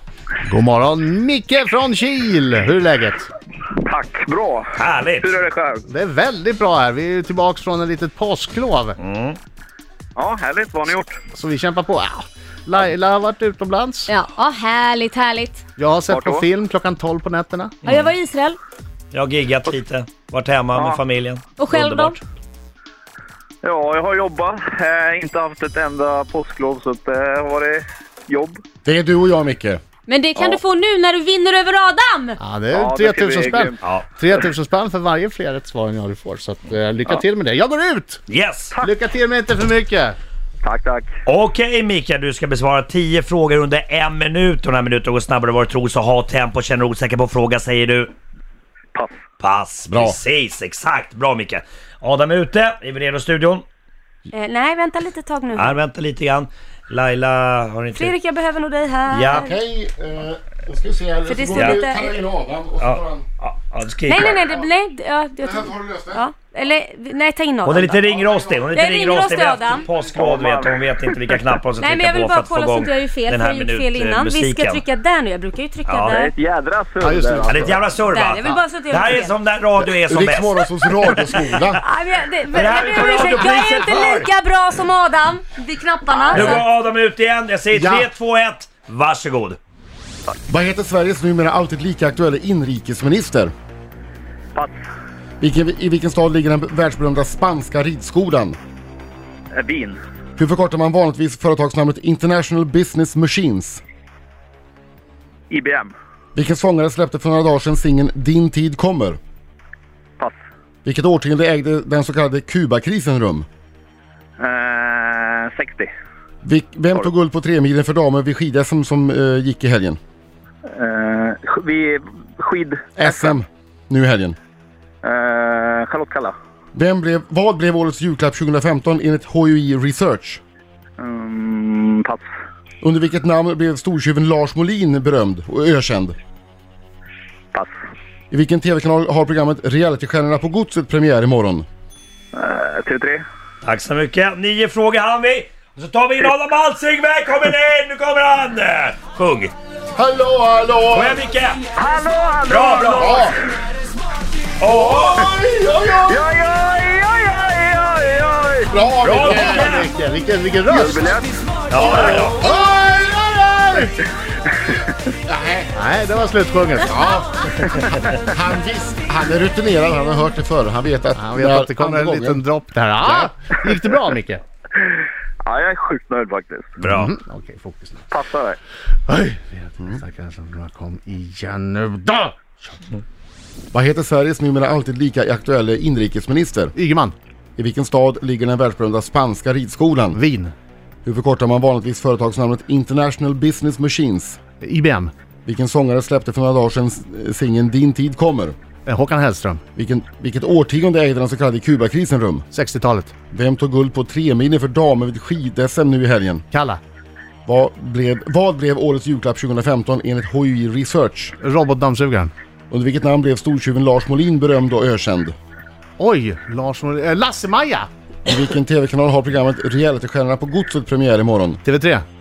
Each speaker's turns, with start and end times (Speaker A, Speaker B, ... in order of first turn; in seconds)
Speaker A: 0.4-3.3, 5.9-9.0, 11.3-14.1, 15.8-17.8, 32.4-38.2, 38.8-40.2, 87.8-88.0, 159.2-161.1, 162.3-163.9, 165.7-166.9, 171.1-174.4, 176.8-178.1, 179.1-182.8, 186.7-187.1, 190.1-190.5, 194.6-195.1, 198.8-199.6, 202.5-203.1, 206.5-206.8, 211.4-212.3, 216.0-217.9, 221.6-222.0
Speaker B: 3.8-5.8, 10.2-11.1, 16.1-16.4, 20.7-21.0, 23.6-28.6, 32.7-33.8, 40.6-41.1, 70.0-71.3, 76.1-77.8, 99.5-100.0, 105.5-105.9, 114.4-115.9, 120.7-123.4, 125.0-126.3, 131.0-132.2, 142.3-143.2, 151.8-153.3, 156.0-158.8, 160.7-161.3, 174.7-176.7, 178.1-178.6
Speaker C: 4.8-5.3, 9.0-9.4, 17.8-18.1, 19.1-22.2, 38.3-38.7, 41.2-48.1, 49.4-53.6, 55.5-58.1, 59.1-59.4, 61.5-61.8, 62.8-64.4, 67.6-74.8, 75.9-76.1, 77.5-81.5, 82.5-84.3, 86.2-89.6, 143.6-149.5, 150.9-151.6, 152.5-153.3, 154.6-155.3, 159.0-159.9, 161.7-162.4, 176.8-177.1
Speaker D: 14.1-15.6, 17.9-18.6, 21.6-22.2, 30.1-32.4, 54.3-55.8, 57.9-59.5, 61.2-62.1, 64.1-68.0, 68.7-69.8, 71.8-76.3, 78.1-79.3, 81.8-86.7
Speaker E: 28.8-29.8, 49.9-50.2, 59.1-63.2, 64.3-64.6, 65.4-66.2, 67.9-69.1, 77.0-77.7, 79.8-81.8, 90.5-93.5, 95.4-98.6, 100.4-103.8, 106.3-109.2, 110.8-113.5, 116.4-120.0, 123.0-124.3, 126.7-130.4, 132.8-136.1, 138.3-141.7, 149.9-151.2, 153.0-153.3, 154.7-156.2, 158.7-159.9, 161.8-162.7, 165.3-165.7, 166.9-167.6, 168.2-172.4, 183.7-186.7, 187.6-190.2, 191.0-194.4, 195.4-198.6, 199.8-202.4, 203.3-206.4, 207.4-211.3, 212.7-215.3, 218.2-221.6